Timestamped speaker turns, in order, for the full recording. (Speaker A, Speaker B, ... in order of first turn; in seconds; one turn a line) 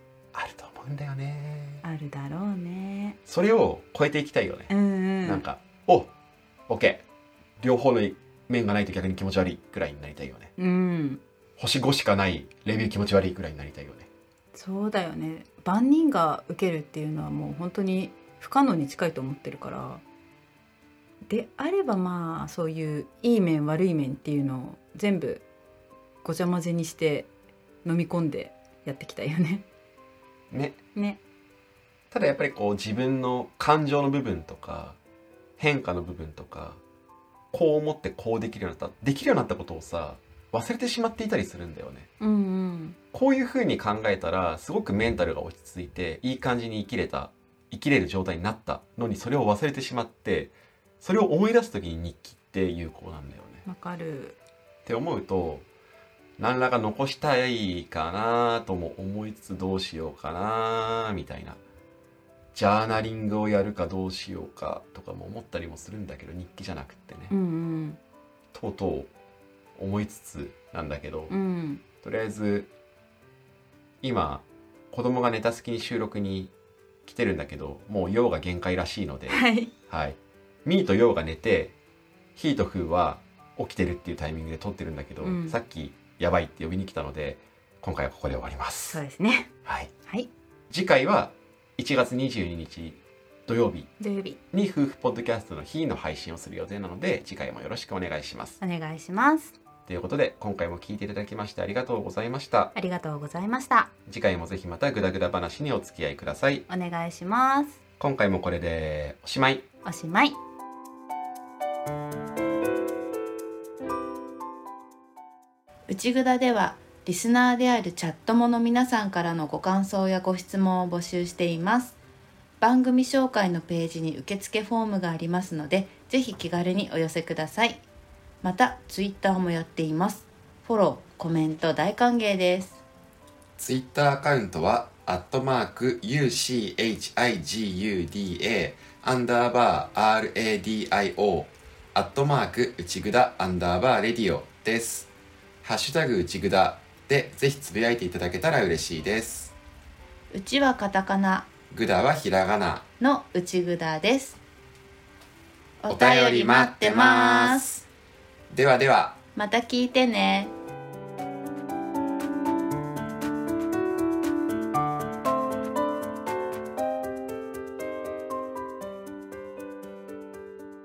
Speaker A: 0.3-1.8
Speaker B: 1.8-3.2
Speaker A: 3.2-4.7
Speaker B: 4.7-5.4
Speaker A: 5.2-6.1
Speaker A: 6.7-7.0
Speaker A: 7.6-10.5
Speaker B: 10.6-11.2
Speaker A: 11.6-14.1
Speaker B: 14.5-20.0
Speaker B: 21.3-25.4
Speaker B: 26.2-27.3
Speaker B: 27.8-29.6
Speaker A: 30.5-30.8
Speaker B: 30.9-31.2
Speaker A: 32.1-35.0
Speaker A: 35.6-36.8
Speaker A: 37.5-42.1
Speaker B: 42.2-43.0
Speaker A: 43.1-53.6
Speaker B: 53.6-54.4
Speaker A: 54.9-55.6
Speaker A: 56.4-61.6
Speaker A: 62.5-67.3
Speaker B: 67.3-68.0
Speaker A: 68.5-69.1
Speaker A: 69.8-71.3
Speaker B: 71.3-71.8
Speaker A: 72.0-72.7
Speaker A: 74.0-76.5
Speaker A: 77.0-81.7
Speaker B: 79.3-79.7
Speaker A: 82.3-89.0
Speaker B: 85.2-85.6
Speaker B: 88.9-89.5
Speaker A: 89.6-89.9
Speaker A: 90.7-93.9
Speaker B: 94.0-94.4
Speaker A: 94.5-98.6
Speaker B: 98.6-99.5
Speaker A: 99.9-102.7
Speaker B: 102.7-103.9
Speaker A: 104.1-106.7
Speaker B: 106.7-107.8
Speaker A: 108.0-109.7
Speaker B: 109.8-110.4
Speaker C: 115.9-122.0
Speaker C: 122.6-127.8
Speaker C: 128.4-132.8
Speaker A: 133.6-145.1
Speaker A: 145.6-149.5
Speaker C: 150.3-151.5
Speaker A: 151.7-152.8
Speaker C: 153.0-154.4
Speaker C: 155.8-157.8
Speaker A: 155.9-157.8
Speaker A: 158.5-159.2
Speaker C: 159.3-160.5